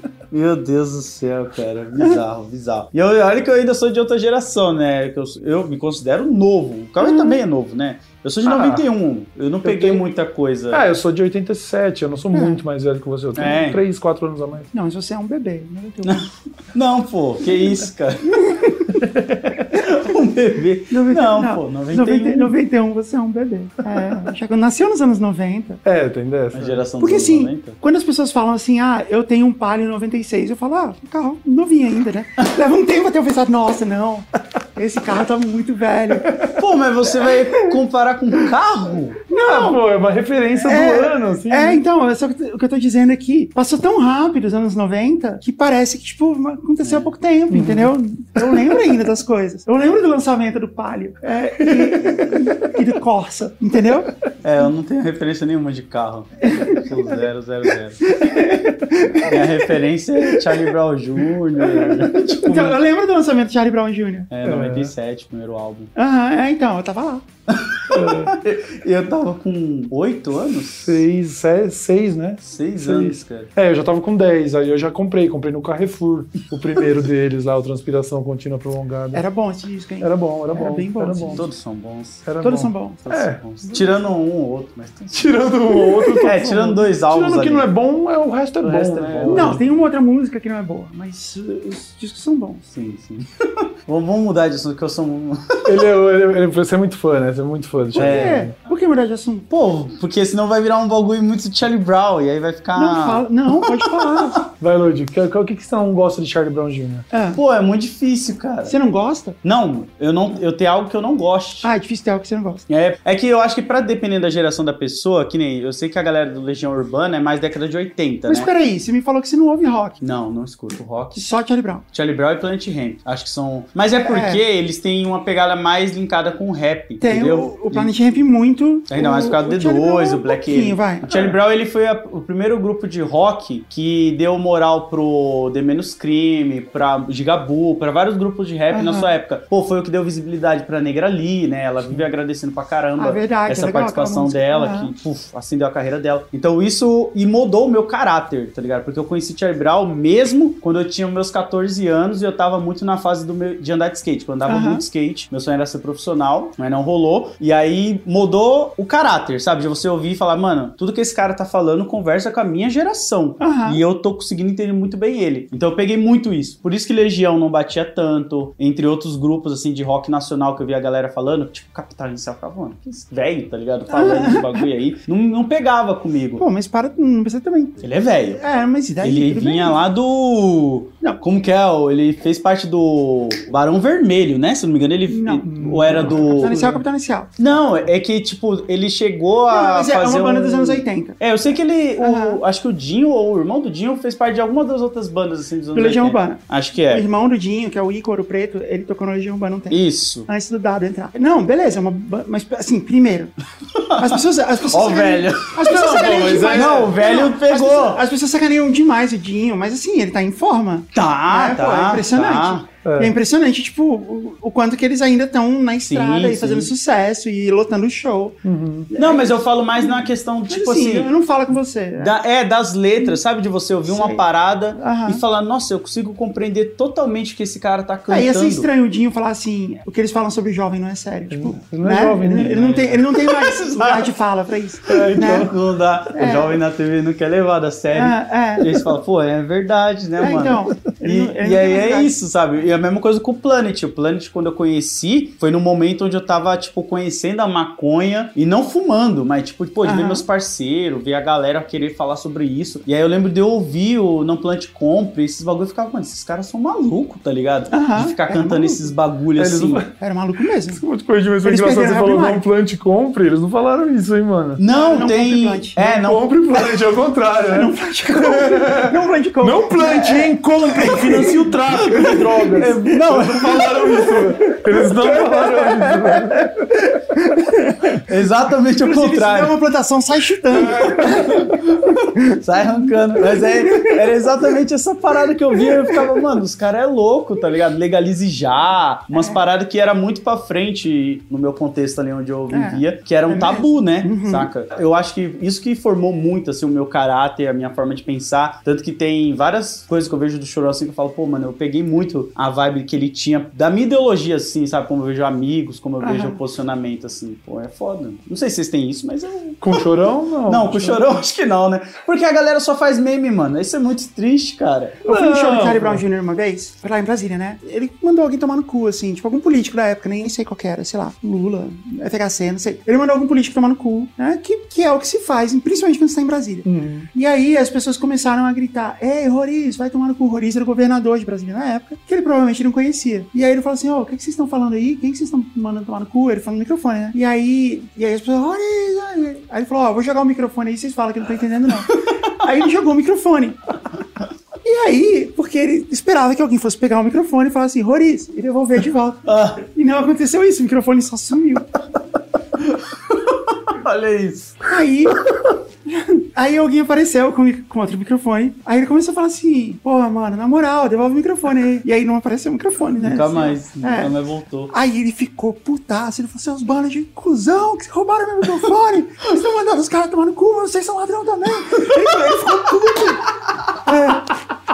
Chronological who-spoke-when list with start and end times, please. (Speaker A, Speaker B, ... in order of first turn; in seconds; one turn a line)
Speaker A: 0.3-10.9
Speaker B: 7.0-7.4
Speaker C: 8.5-8.8
Speaker C: 9.6-10.0
Speaker C: 10.7-14.7
Speaker B: 12.3-12.6
Speaker A: 13.3-13.8
Speaker B: 14.7-16.2
Speaker A: 16.0-18.7
Speaker B: 18.3-18.8
Speaker C: 19.0-19.7
Speaker A: 19.7-22.5
Speaker B: 20.9-25.8
Speaker C: 25.9-26.8
Speaker A: 26.5-27.8
Speaker B: 27.0-36.3
Speaker C: 36.2-36.6
Speaker A: 36.5-39.2
Speaker B: 37.3-37.7
Speaker B: 39.3-39.8
Speaker C: 39.4-41.8
Speaker B: 40.6-54.1
Speaker A: 46.8-47.1
Speaker C: 47.5-47.9
Speaker C: 48.5-48.8
Speaker C: 51.6-52.8
Speaker A: 54.4-58.1
Speaker B: 56.5-56.9
Speaker B: 58.0-59.7
Speaker A: 59.2-62.8
Speaker B: 60.3-60.7
Speaker B: 61.6-64.3
Speaker A: 64.3-65.9
Speaker C: 64.4-64.9
Speaker B: 66.0-67.3
Speaker A: 67.5-71.0
Speaker C: 67.9-68.3
Speaker C: 70.7-79.2
Speaker A: 72.4-73.5
Speaker B: 79.1-81.5
Speaker C: 80.0-81.5
Speaker A: 81.3-82.3
Speaker C: 82.2-83.9
Speaker B: 82.4-83.0
Speaker A: 83.0-87.7
Speaker C: 85.1-89.6
Speaker A: 88.6-89.6
Speaker B: 89.3-92.7
Speaker A: 92.7-95.8
Speaker C: 95.7-98.5
Speaker A: 98.0-98.5
Speaker B: 98.0-99.5
Speaker A: 99.5-104.4
Speaker B: 102.8-104.5
Speaker C: 104.6-107.1
Speaker B: 107.1-107.4
Speaker A: 107.3-108.8
Speaker B: 108.7-109.4
Speaker A: 109.4-111.7
Speaker B: 111.6-112.6
Speaker A: 112.7-118.5
Speaker B: 118.3-120.0
Speaker A: 120.0-121.3
Speaker B: 121.2-121.8
Speaker A: 121.9-127.9
Speaker B: 124.0-124.4
Speaker B: 127.0-131.3
Speaker A: 128.9-176.4
Speaker B: 138.7-139.1
Speaker B: 143.0-144.9
Speaker B: 154.5-154.8
Speaker B: 163.4-163.8
Speaker B: 173.9-174.7
Speaker B: 176.4-179.8
Speaker A: 177.8-178.4
Speaker A: 179.0-186.7
Speaker B: 185.1-187.3
Speaker C: 185.9-186.8
Speaker A: 187.4-197.1
Speaker B: 189.5-191.2
Speaker B: 192.0-192.4
Speaker B: 195.7-203.3
Speaker A: 199.7-200.3
Speaker A: 203.8-208.0
Speaker B: 204.0-218.4
Speaker C: 205.9-206.9
Speaker A: 210.9-212.7
Speaker C: 212.8-213.2
Speaker A: 215.8-216.7
Speaker C: 218.4-218.9
Speaker B: 218.9-222.1
Speaker A: 219.0-221.1
Speaker A: 222.0-228.7
Speaker B: 223.9-224.2
Speaker B: 224.8-225.2
Speaker B: 228.1-235.5
Speaker C: 231.3-232.7
Speaker A: 232.4-234.1
Speaker C: 234.9-235.6
Speaker A: 235.2-259.8
Speaker B: 236.1-236.5
Speaker B: 237.9-238.7
Speaker B: 240.2-242.1
Speaker B: 249.8-250.2
Speaker B: 257.7-258.9
Speaker C: 259.4-259.9
Speaker B: 260.0-260.8
Speaker C: 260.7-264.6
Speaker B: 261.4-262.4
Speaker A: 264.6-266.3
Speaker B: 264.7-265.8
Speaker C: 265.8-276.7
Speaker B: 267.5-272.1
Speaker A: 271.9-274.0
Speaker B: 274.4-278.1
Speaker A: 278.1-279.6
Speaker B: 278.8-281.5
Speaker C: 280.6-281.4
Speaker A: 281.5-309.9
Speaker B: 283.3-284.0
Speaker B: 285.6-285.9
Speaker B: 289.1-289.4
Speaker B: 292.5-294.5
Speaker B: 306.0-306.4
Speaker C: 309.6-311.0
Speaker A: 310.5-315.0
Speaker C: 315.1-316.1
Speaker B: 315.1-343.6
Speaker C: 326.6-327.1
Speaker B: 344.6-351.7
Speaker A: 349.3-349.6
Speaker A: 352.6-354.7
Speaker B: 354.6-355.2
Speaker B: 355.9-364.1
Speaker A: 363.0-364.7
Speaker B: 364.7-374.4